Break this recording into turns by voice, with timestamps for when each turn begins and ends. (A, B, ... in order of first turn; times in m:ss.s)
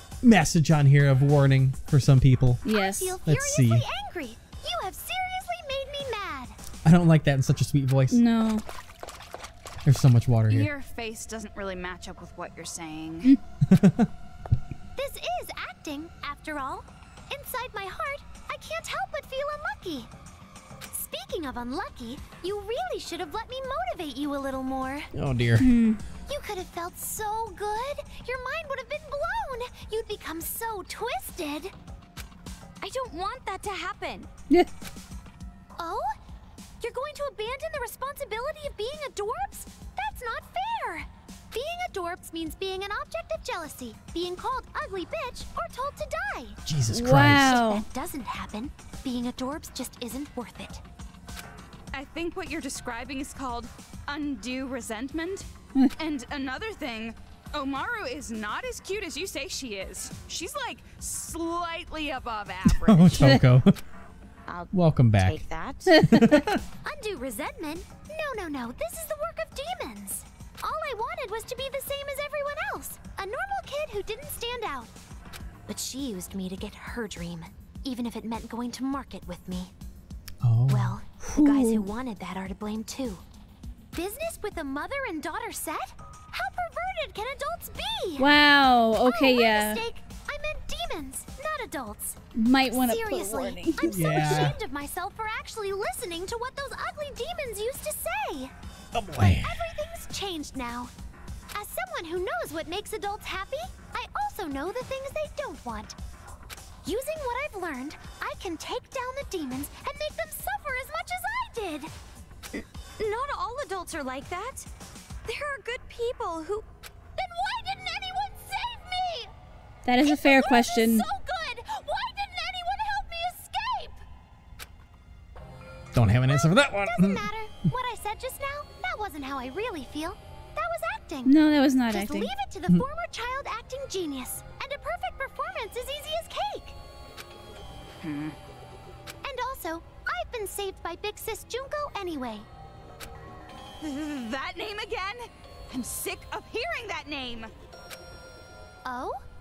0:00.2-0:02.6 A
0:02.6-0:03.1 B
0:02.7-0:06.6 C
0:03.2-0:03.9 A
0:06.8-0:08.2 A
0:08.1-0:08.6 B
0:09.8-0:10.7 A
0:10.5-0:13.4 D
0:13.7-0:14.1 A
0:15.0-0:20.1 C
0:20.9-0:25.1 C
0:25.1-0:25.7 A
0:25.6-0:26.0 B
0:26.3-0:31.7 C
0:32.8-0:34.3 E
0:35.8-0:36.2 C
0:36.8-0:46.6 C
0:46.7-0:47.6 A
0:46.9-0:47.8 B
0:47.3-0:50.8 C
0:51.9-1:03.4 D
1:02.7-1:03.8 A
1:04.5-1:06.0 E
1:04.7-1:05.4 A
1:05.9-1:06.4 B
1:06.0-1:06.6 A
1:06.8-1:14.9 C
1:15.7-1:19.7 C
1:20.4-1:21.0 A
1:20.7-1:23.2 C
1:21.3-1:21.9 B
1:23.9-1:28.3 C
1:28.2-1:29.8 B
1:29.0-1:32.2 C
1:32.4-1:34.5 B
1:32.7-1:38.5 C
1:33.8-1:34.6 A
1:38.9-1:39.6 A
1:39.4-1:40.9 C
1:41.5-1:46.0 C
1:46.8-1:51.9 C
1:52.5-1:54.7 E
1:55.2-1:56.6 E
1:57.2-1:59.3 C
1:59.8-2:01.1 B
2:00.0-2:04.0 C
2:05.9-2:07.3 A
2:06.3-2:11.4 C
2:11.3-2:12.3 B
2:11.9-2:16.8 C
2:18.0-2:18.4 D
2:19.2-2:22.5 C
2:23.8-2:27.5 D
2:28.8-2:29.2 C